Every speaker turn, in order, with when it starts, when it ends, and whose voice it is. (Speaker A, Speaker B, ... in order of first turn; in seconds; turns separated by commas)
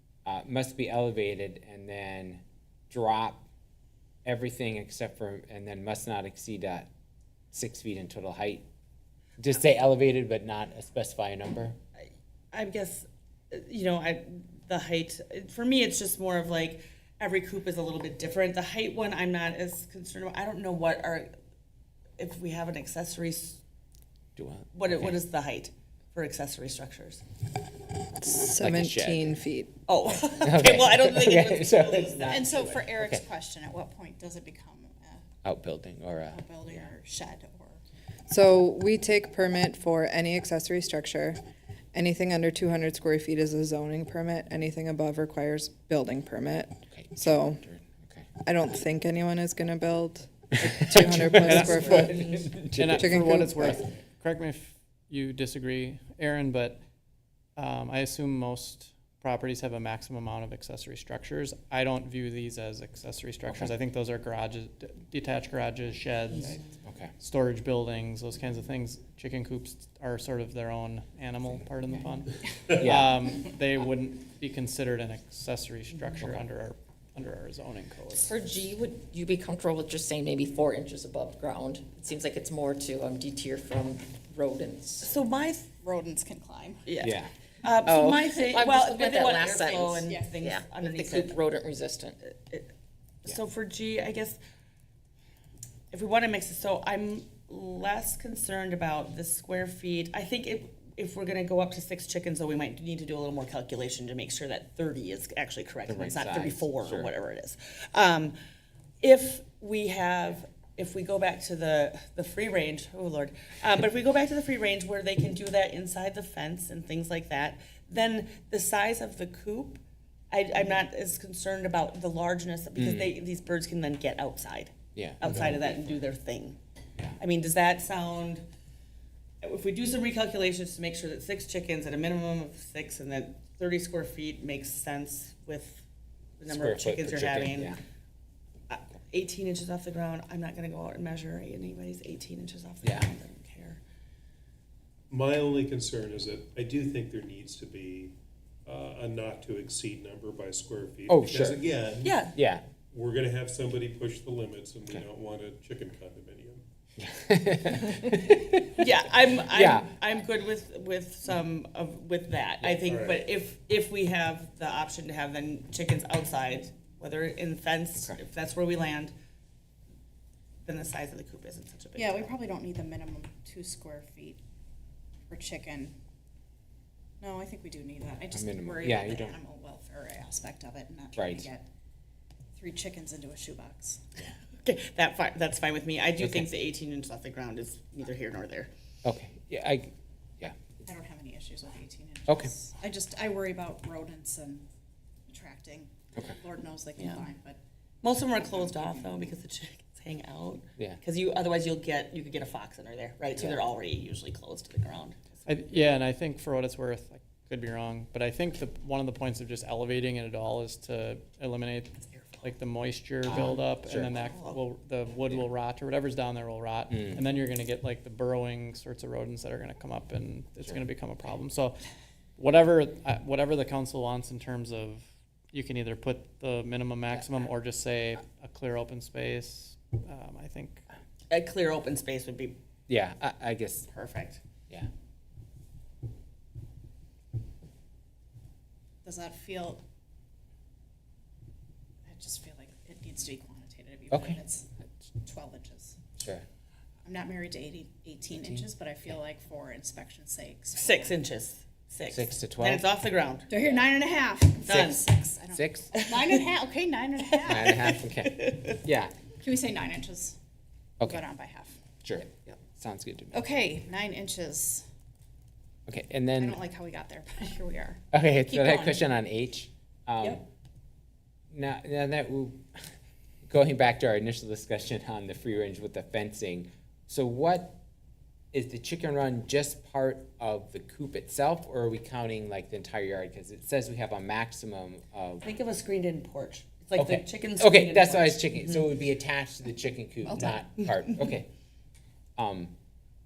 Speaker A: 0.2-3.4, Speaker A: 4.2-6.9, Speaker A: 7.5-8.6, Speaker A: 9.4-11.8, Speaker B: 12.0-21.3, Speaker B: 22.2-23.6, Speaker A: 24.4-25.2, Speaker B: 24.7-27.2, Speaker C: 28.2-29.7, Speaker A: 28.6-29.3, Speaker B: 29.9-32.6, Speaker A: 30.4-33.2, Speaker D: 32.3-35.2, Speaker A: 35.4-36.9, Speaker D: 36.3-37.8, Speaker C: 38.3-41.4, Speaker C: 41.9-47.6, Speaker A: 46.9-48.3, Speaker C: 48.4-53.8, Speaker A: 50.9-53.8, Speaker E: 51.4-56.8, Speaker E: 57.5-66.7, Speaker A: 66.8-67.1, Speaker E: 67.2-78.3, Speaker A: 72.8-73.1, Speaker F: 78.2-85.1, Speaker B: 85.0-85.7, Speaker D: 85.8-86.9, Speaker B: 86.8-91.4, Speaker A: 87.0-87.3, Speaker F: 87.8-92.2, Speaker D: 90.0-90.4, Speaker B: 92.2-92.7, Speaker B: 93.2-94.4, Speaker B: 95.9-108.3, Speaker A: 105.9-107.1, Speaker B: 109.0-119.8, Speaker B: 120.3-126.6, Speaker A: 122.8-123.1, Speaker A: 124.9-125.9, Speaker B: 127.2-128.4, Speaker B: 129.4-135.8, Speaker B: 136.4-137.7, Speaker A: 136.5-137.8, Speaker B: 138.7-143.8, Speaker A: 142.8-143.1, Speaker G: 145.1-152.3, Speaker A: 151.1-151.6, Speaker B: 152.0-152.3, Speaker A: 152.3-152.6, Speaker G: 152.9-156.6, Speaker A: 157.0-158.8, Speaker B: 158.8-169.1, Speaker A: 159.5-159.9, Speaker G: 162.8-163.2, Speaker B: 170.7-172.3, Speaker D: 171.9-174.4, Speaker D: 175.3-175.9, Speaker D: 177.2-181.7, Speaker A: 178.3-179.3, Speaker A: 181.2-181.4, Speaker D: 182.6-184.0, Speaker B: 184.6-188.7, Speaker A: 186.2-186.5, Speaker A: 189.0-190.6, Speaker D: 190.8-194.7, Speaker A: 192.3-192.5, Speaker D: 195.3-197.6, Speaker B: 197.0-197.2, Speaker B: 198.0-205.9, Speaker D: 198.3-199.3, Speaker E: 205.4-221.8, Speaker A: 213.3-214.1, Speaker B: 214.1-214.6, Speaker A: 216.9-217.2, Speaker E: 222.4-230.8, Speaker B: 231.3-232.6, Speaker A: 232.9-233.9, Speaker B: 233.9-234.4, Speaker D: 239.0-239.8, Speaker D: 242.1-246.0, Speaker A: 244.1-244.4, Speaker A: 246.2-246.4, Speaker D: 247.0-251.2, Speaker B: 250.8-253.5, Speaker A: 252.1-252.8, Speaker D: 253.5-257.8, Speaker B: 254.6-255.1, Speaker A: 255.5-256.1, Speaker A: 257.4-259.1, Speaker B: 257.5-258.7, Speaker D: 259.4-260.4, Speaker D: 261.0-261.8, Speaker A: 262.0-263.4, Speaker D: 263.3-264.8, Speaker A: 265.9-266.6, Speaker D: 266.4-269.1, Speaker A: 268.1-270.4, Speaker A: 271.5-272.6, Speaker A: 273.5-277.8, Speaker A: 278.5-285.4, Speaker B: 285.4-288.5, Speaker A: 287.0-291.5, Speaker A: 292.4-292.7